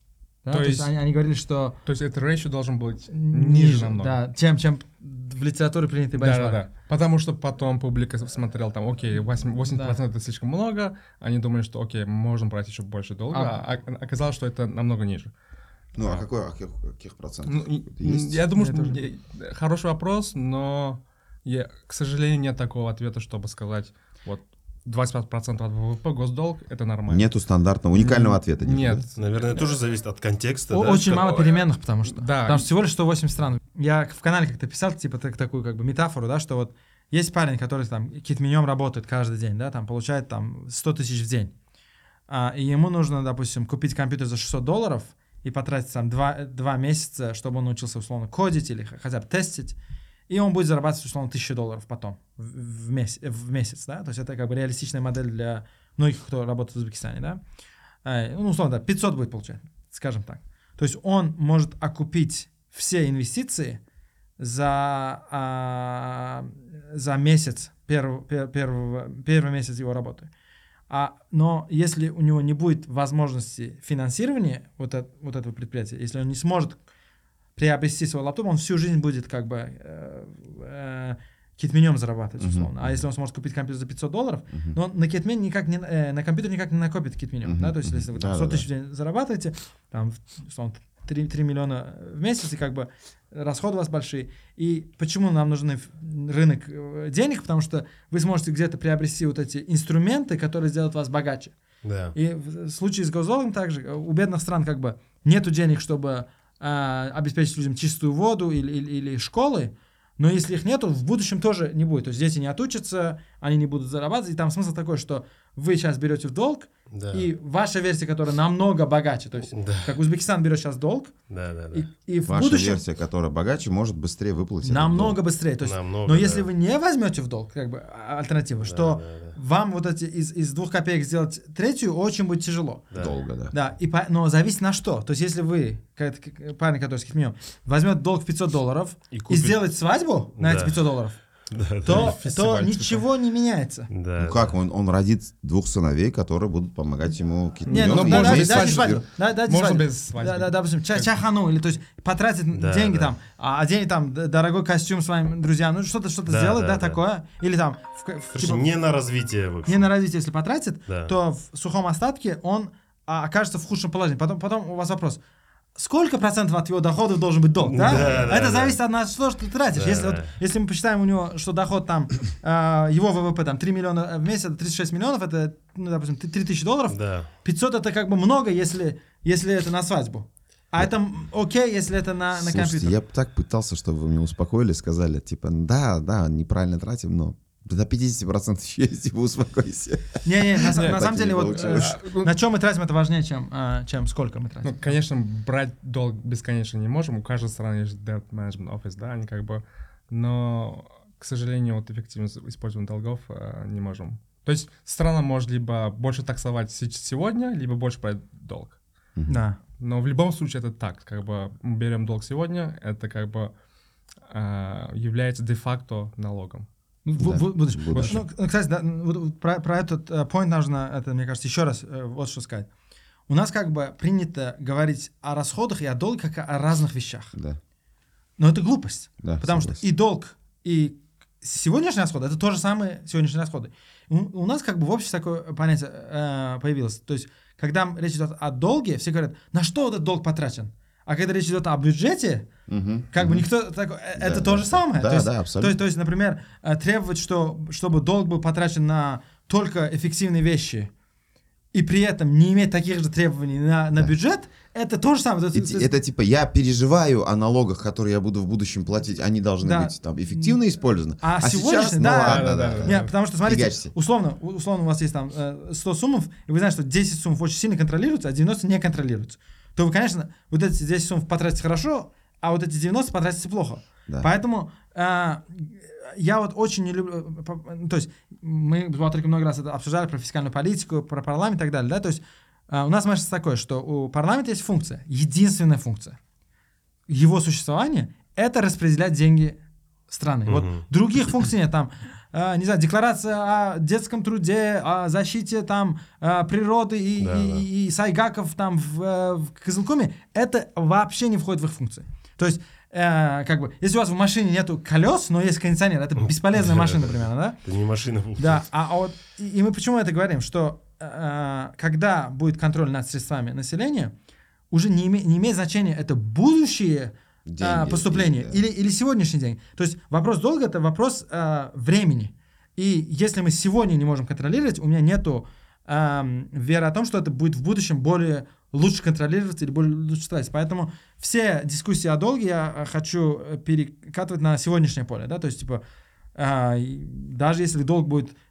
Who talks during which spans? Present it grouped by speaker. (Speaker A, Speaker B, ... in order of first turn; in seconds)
Speaker A: 0.4-1.8, 3.1-6.6, 9.7-10.0, 13.3-13.6, 18.6-19.0, 30.7-41.5, 42.3-49.8, 50.3-57.4, 58.0-63.8, 64.4-70.3, 70.9-76.8, 77.6-101.5, 102.2-121.1, 121.7-122.8, 124.6-132.9, 133.5-141.2, 141.8-143.9, 147.7-158.7, 159.7-165.2, 165.8-182.9, 190.2-194.9, 209.3-209.6, 217.1-222.7, 223.3-227.3, 228.4-242.5, 243.1-250.9, 251.7-255.9, 259.6-260.6, 261.2-286.2, 287.1-307.6, 308.4-314.1, 314.7-335.8, 336.4-338.4
Speaker B: 0.5-0.9, 1.9-4.2, 6.1-15.3, 16.0-16.3, 17.5-27.3, 27.9-29.8, 31.2-32.7, 141.9-143.1, 147.7-151.1, 190.7-192.3, 194.6-208.8, 209.8-213.5, 214.2-216.7, 217.9-218.3, 262.2-263.1
Speaker C: 15.9-18.4, 27.1-29.1, 82.4-83.1, 84.5-84.8, 87.4-88.7, 122.3-125.2, 133.0-133.6, 144.2-149.0, 182.3-192.0, 217.2-218.2, 229.2-229.8, 242.7-243.5, 244.2-245.8, 255.5-263.9, 317.5-318.7
Speaker D: 29.2-31.4, 101.8-102.2, 116.9-117.3, 119.5-119.9, 121.3-121.9, 125.6-126.5, 128.6-129.4, 139.1-139.6, 140.4-140.8, 141.5-142.2, 143.9-144.5, 152.5-153.1, 156.3-157.0, 158.3-159.9, 160.9-161.1, 167.6-168.8, 169.7-170.3, 176.9-177.3, 290.5-290.9, 297.2-297.7, 306.2-308.6